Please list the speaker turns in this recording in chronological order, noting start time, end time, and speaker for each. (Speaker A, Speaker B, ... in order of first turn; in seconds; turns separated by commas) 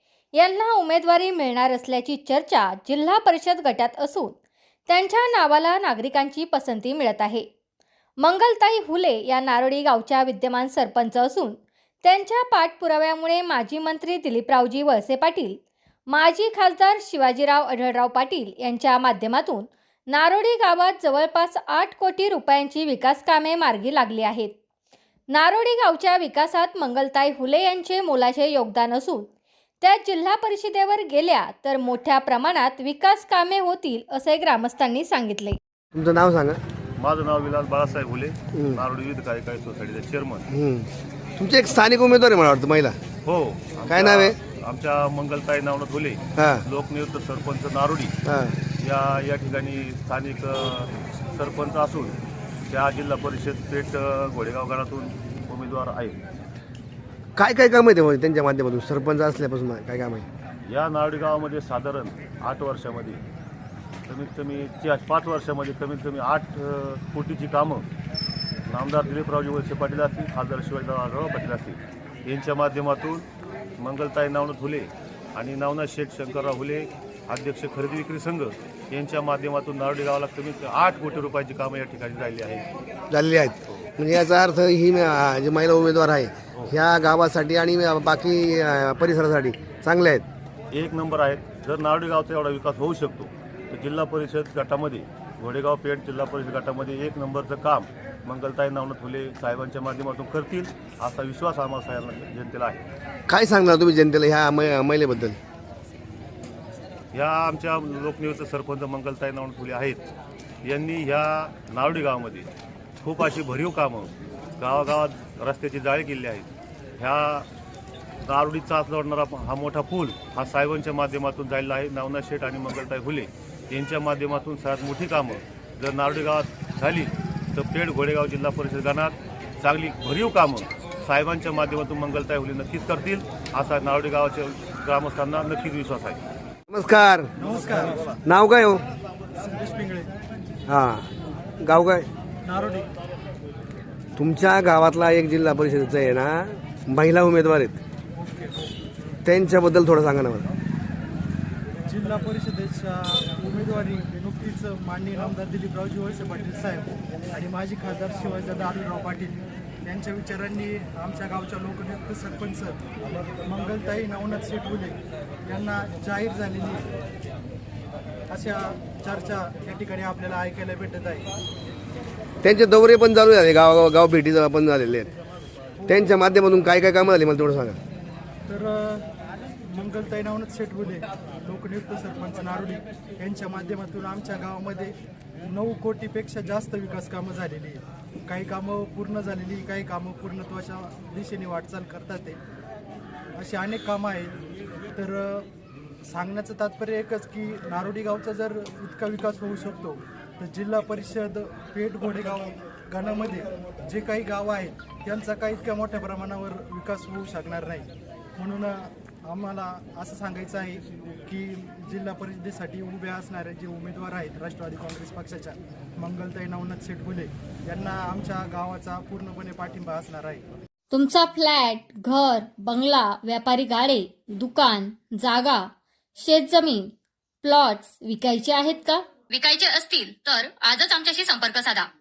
Speaker A: 0.3-7.5, Speaker A: 8.2-24.6, Speaker A: 25.3-29.3, Speaker A: 29.8-35.6, Speaker B: 35.9-36.6, Speaker C: 37.0-40.5, Speaker B: 38.5-38.8, Speaker B: 40.5-43.0, Speaker C: 43.2-48.1, Speaker B: 43.9-44.4, Speaker B: 46.4-46.6, Speaker B: 48.2-48.6, Speaker C: 48.8-52.2, Speaker C: 52.7-56.2, Speaker B: 57.4-60.2, Speaker C: 60.6-63.2, Speaker C: 64.1-67.8, Speaker C: 68.7-73.2, Speaker C: 73.8-82.7, Speaker B: 83.1-90.2, Speaker C: 90.7-102.8, Speaker B: 103.3-105.4, Speaker C: 107.1-110.0, Speaker C: 110.6-112.5, Speaker C: 113.0-117.5, Speaker C: 118.2-136.2, Speaker B: 136.7-137.3, Speaker D: 137.4-138.0, Speaker B: 138.2-138.8, Speaker D: 139.4-140.1, Speaker B: 140.7-141.1, Speaker B: 141.6-142.1, Speaker D: 142.4-142.9, Speaker B: 144.2-147.8, Speaker D: 148.2-148.6, Speaker B: 149.2-150.4, Speaker D: 151.8-166.8, Speaker D: 168.3-171.3, Speaker B: 172.4-175.1, Speaker D: 175.8-176.1, Speaker B: 175.9-177.8, Speaker D: 178.5-179.1, Speaker D: 179.7-184.9, Speaker D: 185.4-192.4, Speaker D: 193.4-194.4, Speaker D: 194.9-195.5, Speaker D: 196.1-220.4, Speaker A: 220.9-229.0, Speaker E: 229.3-231.9